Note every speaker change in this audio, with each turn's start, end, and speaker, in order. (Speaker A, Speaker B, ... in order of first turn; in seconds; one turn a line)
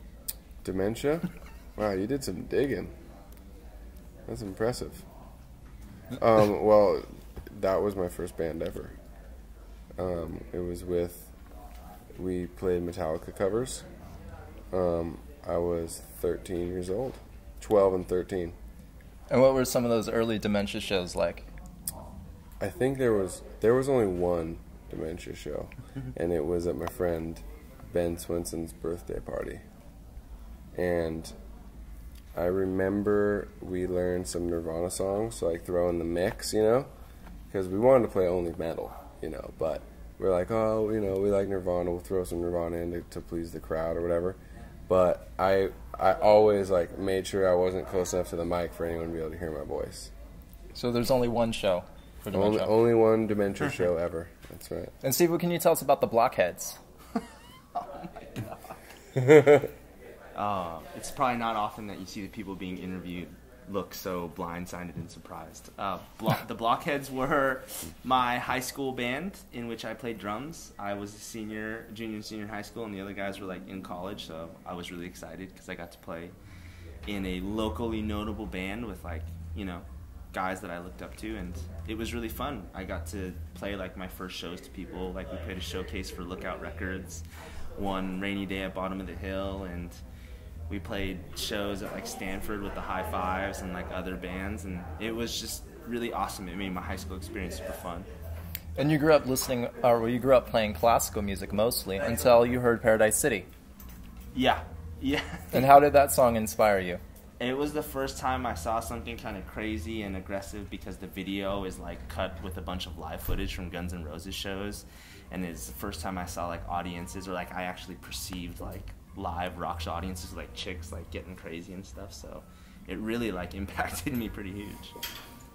Speaker A: 0.6-2.9
Speaker A: 4.2-5.0
Speaker A: 6.2-8.9
Speaker A: 10.0-11.3
Speaker A: 12.2-13.8
Speaker A: 14.7-18.6
Speaker B: 19.3-21.5
Speaker A: 22.6-29.6
Speaker A: 30.7-31.3
Speaker A: 32.3-36.9
Speaker A: 37.5-50.1
Speaker B: 50.7-52.7
Speaker A: 52.3-54.9
Speaker B: 55.0-56.8
Speaker C: 57.7-58.7
Speaker C: 60.3-76.3
Speaker C: 77.0-87.2
Speaker C: 87.8-90.0
Speaker C: 90.7-98.1
Speaker B: 98.8-103.5
Speaker C: 104.3-105.8
Speaker B: 105.5-107.0
Speaker C: 107.4-125.0